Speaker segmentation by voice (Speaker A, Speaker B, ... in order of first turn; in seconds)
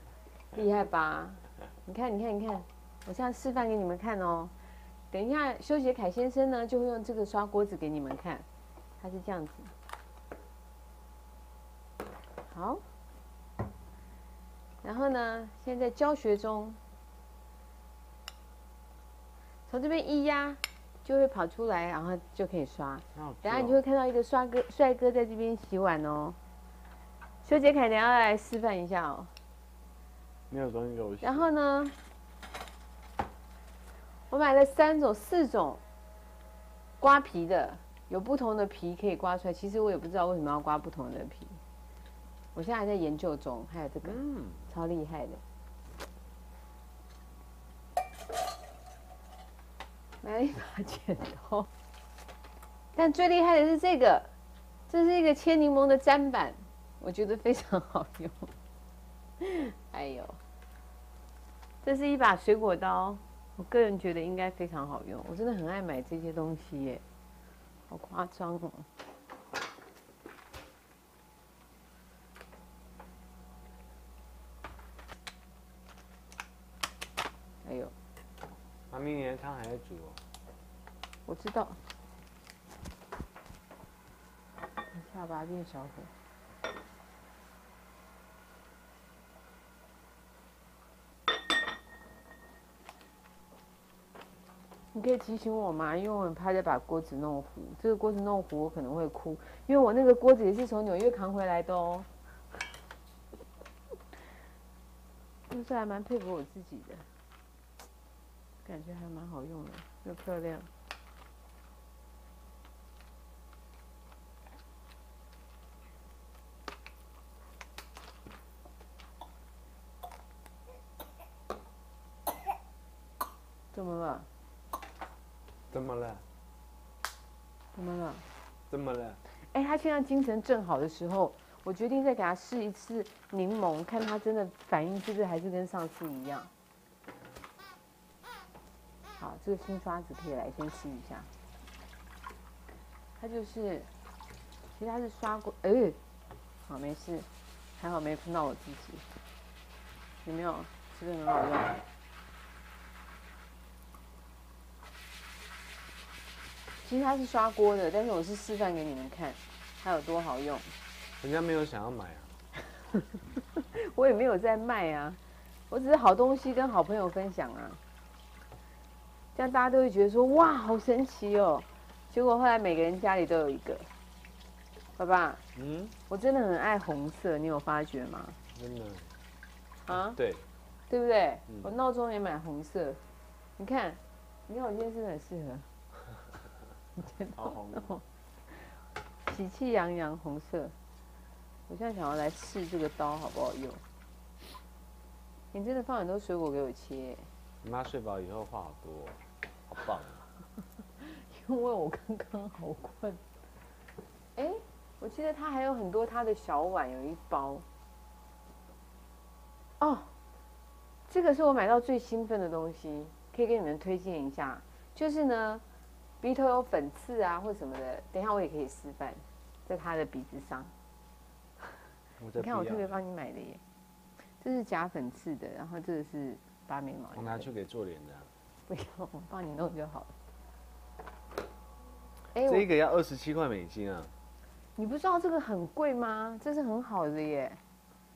Speaker A: 0.5-4.5, 5.1-8.5, 9.0-9.7, 12.5-12.8, 14.8-16.8, 19.7-26.4, 27.4-29.3, 31.2-32.0, 34.3-35.8, 37.0-41.6, 42.5-45.4, 50.2-51.7, 52.9-54.3, 54.9-58.5, 59.4-60.4, 61.8-67.0, 67.9-68.9, 77.6-77.9, 81.3-81.8, 84.9-86.1, 94.9-102.1, 105.5-107.1, 108.6-110.7, 123.7-124.3, 127.7-128.2, 129.4-136.5, 139.2-141.3, 143.2-143.9, 144.8-146.0, 146.7-149.1, 150.2-151.8, 156.8-160.7, 163.6-167.8, 169.3-173.9, 175.0-175.4, 176.1-178.4, 179.9-180.2, 180.9-183.0, 183.6-185.7, 187.0-188.0, 189.3-190.8, 191.7-193.8, 195.5-197.3, 201.0-203.2, 204.4-207.6, 209.8-210.1, 211.1-215.6, 216.2-220.7, 222.4-223.6, 224.4-227.5, 228.7-230.1, 232.3-232.7, 234.8-237.6
Speaker B: 23.1-23.8, 30.5-31.5, 44.0-44.6, 78.9-80.2, 125.7-126.2, 128.7-129.2, 161.2-162.3, 175.6-175.9, 178.5-179.1, 180.1-180.4, 187.3-187.9, 197.6-200.2, 222.2-222.9, 227.1-228.3, 232.5-234.1